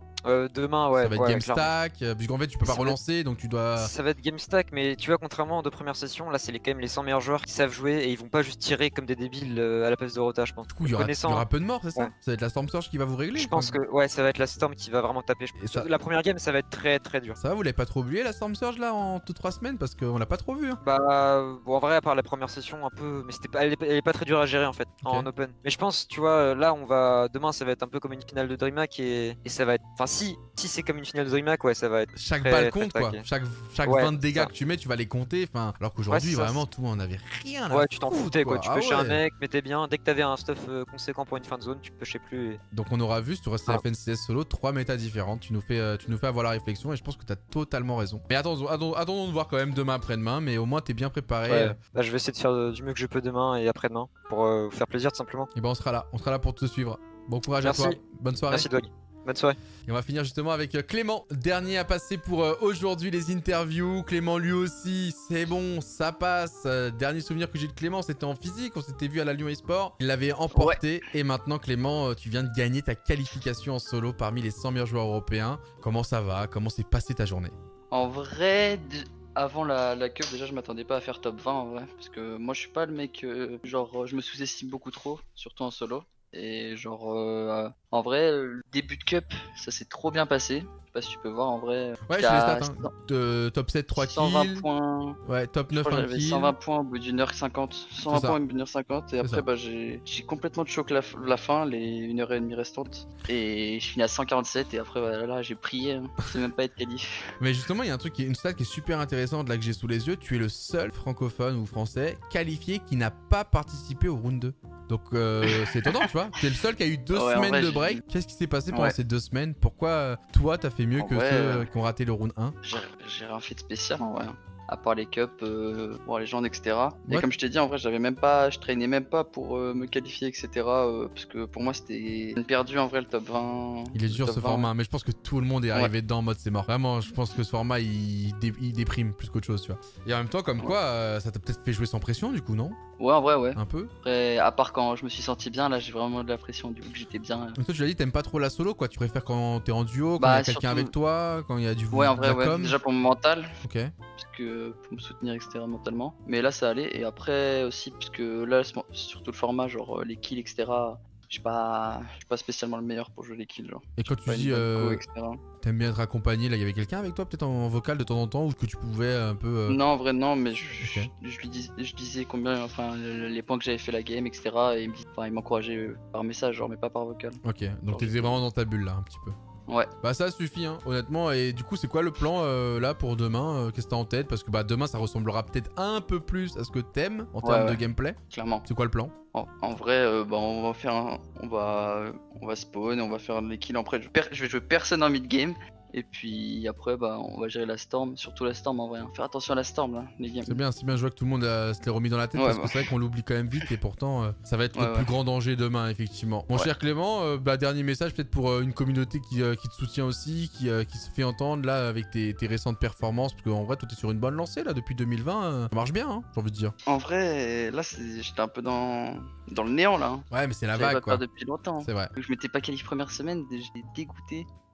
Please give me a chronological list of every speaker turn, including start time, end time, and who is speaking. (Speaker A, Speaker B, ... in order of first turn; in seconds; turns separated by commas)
Speaker A: 0.2-1.7, Speaker B: 0.9-3.9, Speaker A: 2.6-3.0, Speaker A: 3.7-12.1, Speaker B: 10.7-13.8, Speaker A: 13.3-17.4, Speaker B: 15.6-15.9, Speaker B: 17.4-20.8, Speaker A: 20.8-33.2, Speaker B: 25.0-25.3, Speaker B: 32.1-39.2, Speaker A: 33.8-34.5, Speaker A: 36.1-36.6, Speaker A: 37.7-42.6, Speaker B: 42.7-51.8, Speaker A: 51.5-55.5, Speaker B: 55.5-58.7, Speaker A: 57.6-58.0, Speaker A: 58.5-59.6, Speaker B: 59.9-77.5, Speaker C: 70.5-70.8, Speaker C: 77.9-92.9, Speaker B: 92.1-94.7, Speaker C: 93.9-95.2, Speaker B: 95.2-96.5, Speaker C: 95.7-107.3, Speaker B: 98.0-98.4, Speaker B: 107.4-122.6, Speaker C: 115.4-116.1, Speaker C: 117.1-118.0, Speaker C: 121.0-121.7, Speaker C: 122.6-134.7, Speaker B: 133.9-142.8, Speaker C: 143.0-147.6, Speaker B: 143.5-143.9, Speaker B: 147.6-152.8, Speaker C: 150.2-150.9, Speaker C: 151.9-153.5, Speaker B: 153.6-153.9, Speaker C: 154.2-165.4, Speaker B: 164.0-165.0, Speaker B: 165.6-169.8, Speaker C: 169.7-177.4, Speaker B: 170.5-171.1, Speaker B: 177.4-179.4, Speaker C: 177.9-178.4, Speaker B: 180.0-189.1, Speaker C: 187.4-188.7, Speaker C: 189.3-200.6, Speaker B: 200.4-216.7, Speaker C: 202.3-202.9, Speaker C: 204.7-205.1, Speaker C: 216.9-224.5, Speaker B: 220.3-221.2, Speaker B: 221.8-222.1